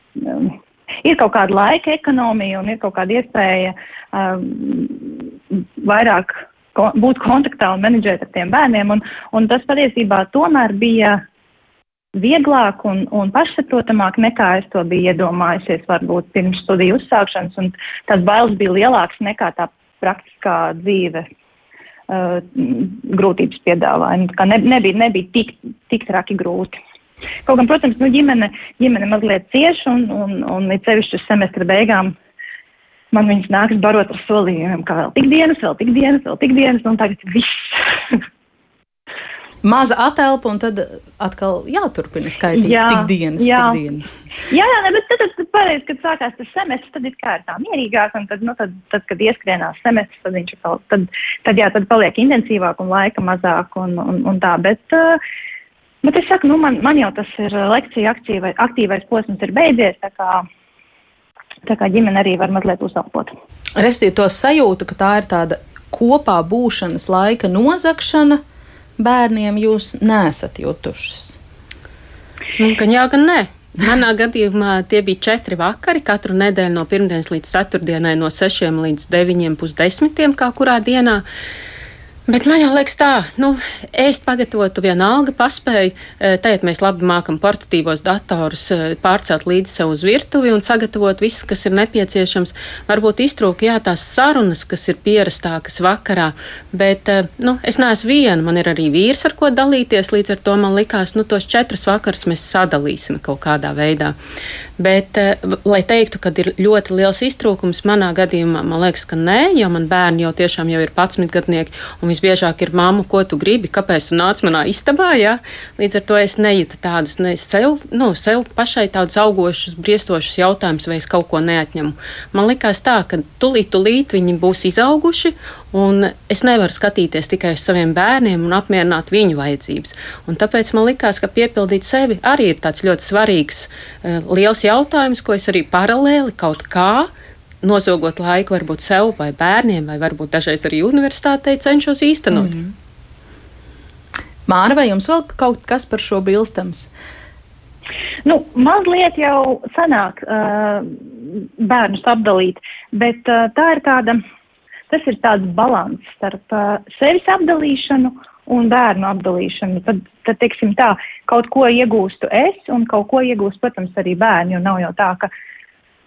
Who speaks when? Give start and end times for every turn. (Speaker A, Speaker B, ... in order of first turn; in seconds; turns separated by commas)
Speaker A: 0.2-11.2, Speaker A: 12.2-21.3, Speaker A: 22.1-26.7, Speaker A: 27.5-32.1, Speaker A: 33.1-38.1, Speaker B: 39.6-44.2, Speaker A: 42.5-43.8, Speaker A: 44.5-55.2, Speaker A: 56.0-60.5, Speaker A: 61.7-63.3, Speaker B: 63.8-68.4, Speaker B: 69.0-71.4, Speaker C: 72.6-81.2, Speaker C: 82.3-104.2, Speaker C: 104.8-137.1, Speaker C: 137.6-142.5, Speaker B: 142.3-142.7, Speaker B: 144.5-146.9, Speaker A: 148.3-154.2, Speaker A: 154.9-165.3